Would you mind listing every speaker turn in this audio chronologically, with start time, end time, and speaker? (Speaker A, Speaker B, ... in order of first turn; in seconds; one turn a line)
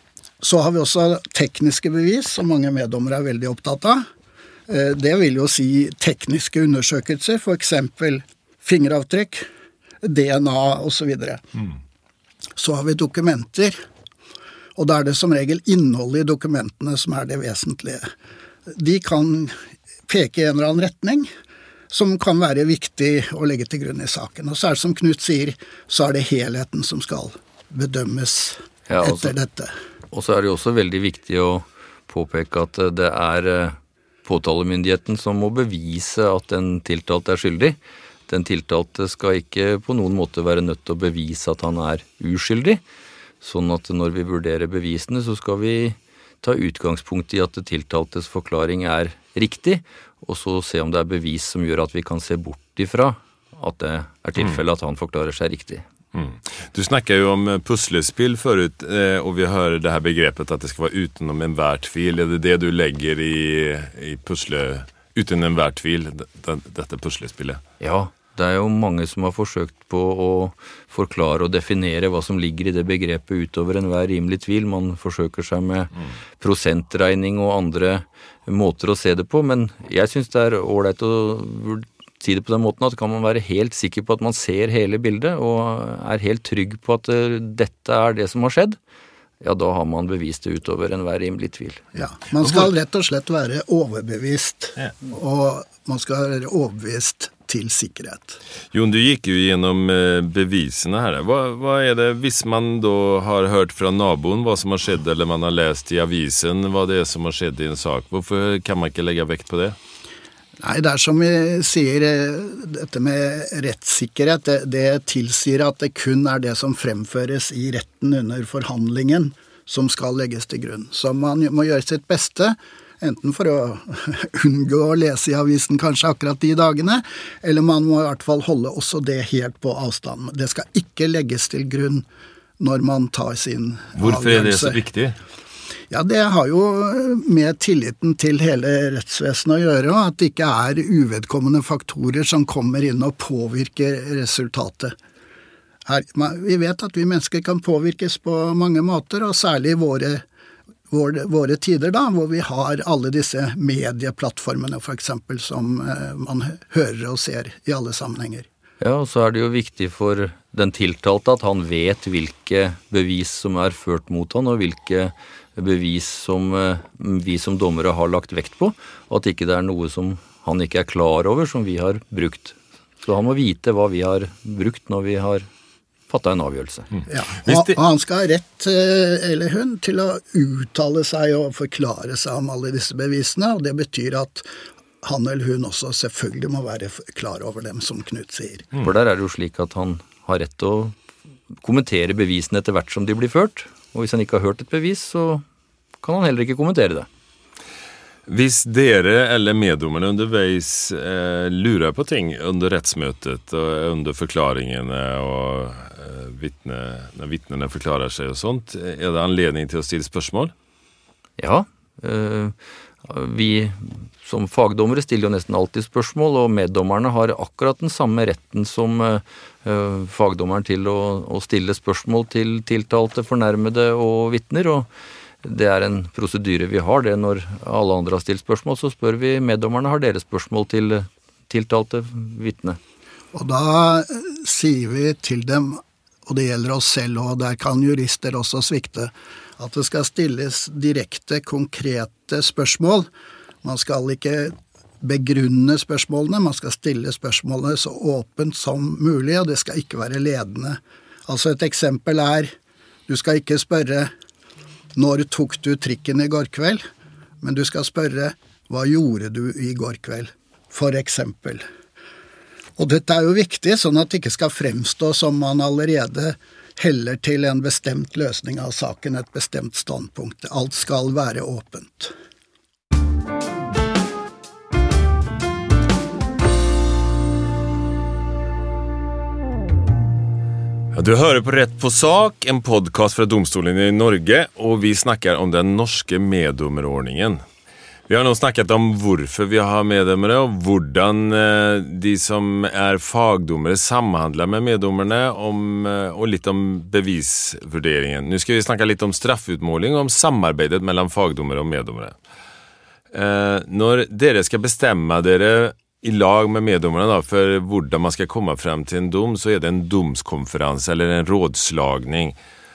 Speaker A: 0.4-4.0
Speaker A: 4.7-9.5
Speaker A: 10.0-11.4
Speaker A: 12.6-13.8
Speaker A: 14.8-18.1
Speaker A: 18.7-19.6
Speaker A: 20.1-21.3
Speaker A: 21.9-29.8
Speaker B: 28.9-29.3
Speaker B: 30.1-37.8
Speaker B: 38.3-42.8
Speaker B: 43.4-55.9
Speaker C: 56.1-67.6
Speaker B: 67.8-88.8
Speaker B: 89.4-91.8
Speaker A: 92.0-98.4
Speaker C: 98.7-109.8
Speaker A: 110.6-132.1
Speaker A: 132.6-134.8
Speaker C: 134.0-135.2
Speaker A: 135.9-144.9
Speaker A: 145.9-150.2
Speaker A: 150.9-158.5
Speaker B: 158.8-175.5
Speaker B: 176.1-176.9
Speaker A: 177.1-184.5
Speaker A: 185.0-188.7
Speaker B: 188.8-190.9
Speaker B: 191.6-195.4
Speaker B: 196.0-197.1
Speaker C: 198.3-210.5
Speaker B: 211.4-224.9
Speaker B: 225.4-232.8
Speaker A: 233.3-243.1
Speaker A: 243.6-252.5
Speaker A: 253.1-254.1
Speaker A: 255.0-256.8
Speaker A: 257.4-261.6
Speaker A: 262.8-272.1
Speaker C: 280.9-287.4
Speaker C: 288.1-302.1
Speaker C: 303.1-312.4